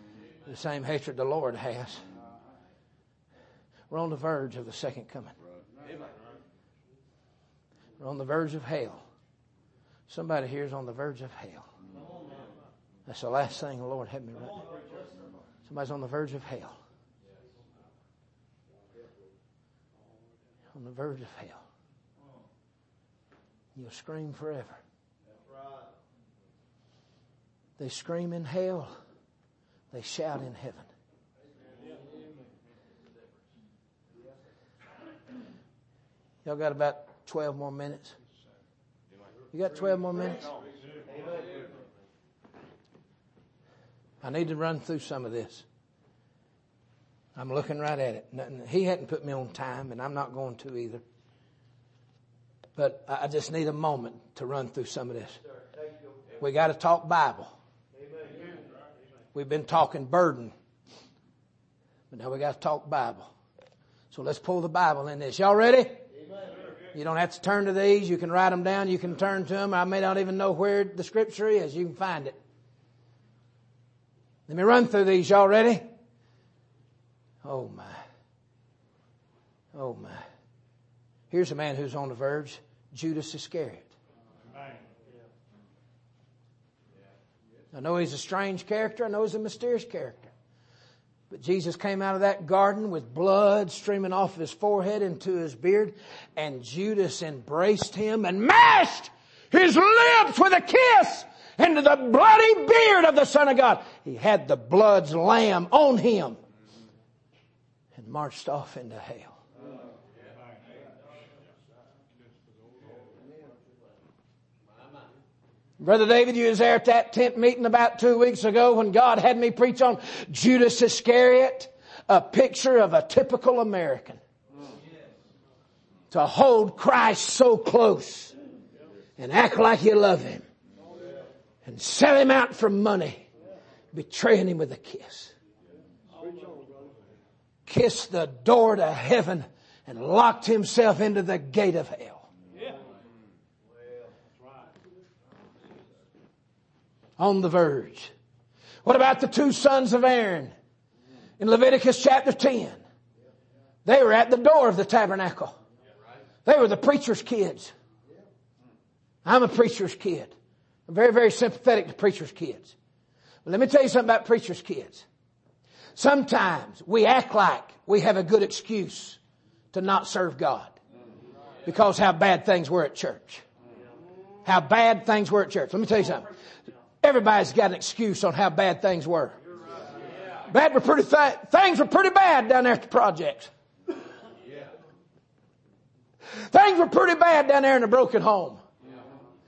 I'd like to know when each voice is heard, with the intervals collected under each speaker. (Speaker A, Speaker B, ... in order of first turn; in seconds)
Speaker A: 0.5-2.0, 3.9-5.3, 8.0-9.1, 10.1-11.7, 13.1-14.7, 15.7-16.8, 20.7-21.6, 23.8-24.8, 27.8-28.9, 29.9-30.9, 36.4-38.1, 39.5-40.5, 44.2-45.6, 47.4-51.0, 52.8-55.4, 56.4-57.5, 59.3-60.5, 62.1-63.3, 64.1-66.0, 66.9-72.4, 74.5-75.9, 77.4-78.0, 79.7-80.2, 81.3-83.9, 87.7-90.3, 91.3-106.4, 108.0-109.4, 115.8-124.2, 126.1-128.3, 129.2-130.4, 131.6-133.2, 133.9-135.3, 137.7-142.3, 147.2-148.1, 148.8-150.5, 151.4-152.8, 153.8-155.6, 156.4-157.7, 159.2-160.3, 160.9-162.7, 163.4-165.1, 165.9-169.2, 169.7-170.8, 171.7-173.4, 174.4-176.3, 177.0-179.4, 180.5-183.5, 186.4-188.6